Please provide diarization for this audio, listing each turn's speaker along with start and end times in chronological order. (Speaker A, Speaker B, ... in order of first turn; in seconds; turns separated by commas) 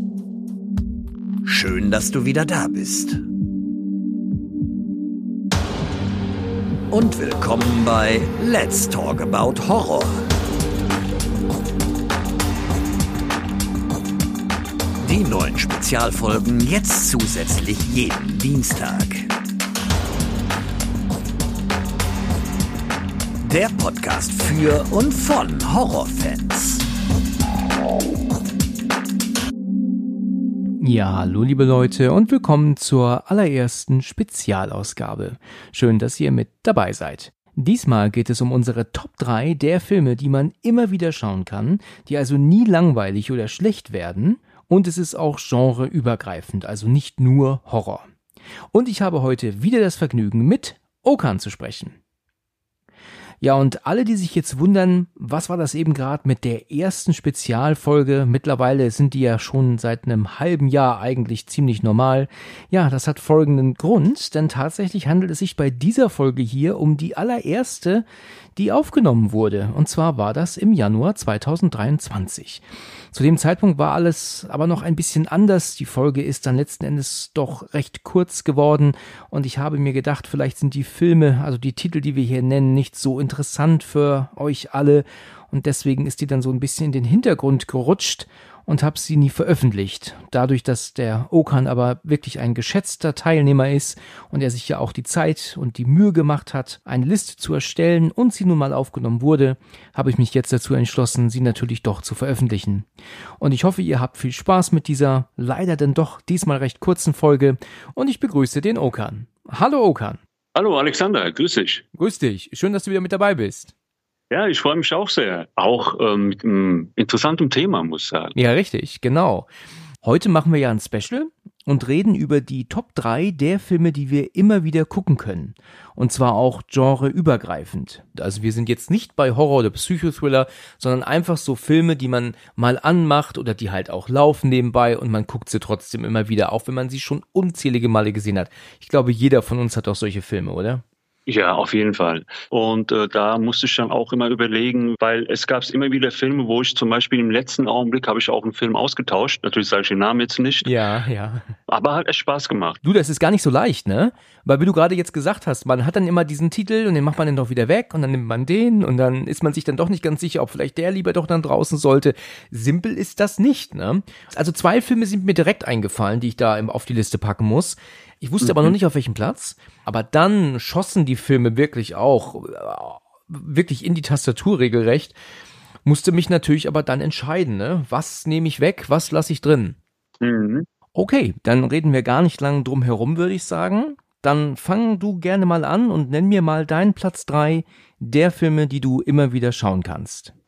Speaker A: 1.4-3.2, Speaker A: 6.9-10.2, Speaker A: 15.0-19.3, Speaker A: 23.4-26.8, Speaker B: 30.8-48.1, Speaker B: 48.7-52.0, Speaker B: 53.4-68.0, Speaker B: 68.5-110.2, Speaker C: 110.5-111.8, Speaker B: 111.9-113.7, Speaker C: 114.3-118.3, Speaker B: 118.3-119.5, Speaker B: 120.0-140.8, Speaker C: 141.3-150.7, Speaker B: 150.6-151.6, Speaker C: 151.7-152.8, Speaker B: 152.8-175.2, Speaker C: 168.4-168.7, Speaker B: 175.8-179.8, Speaker C: 180.2-180.7, Speaker B: 180.9-190.3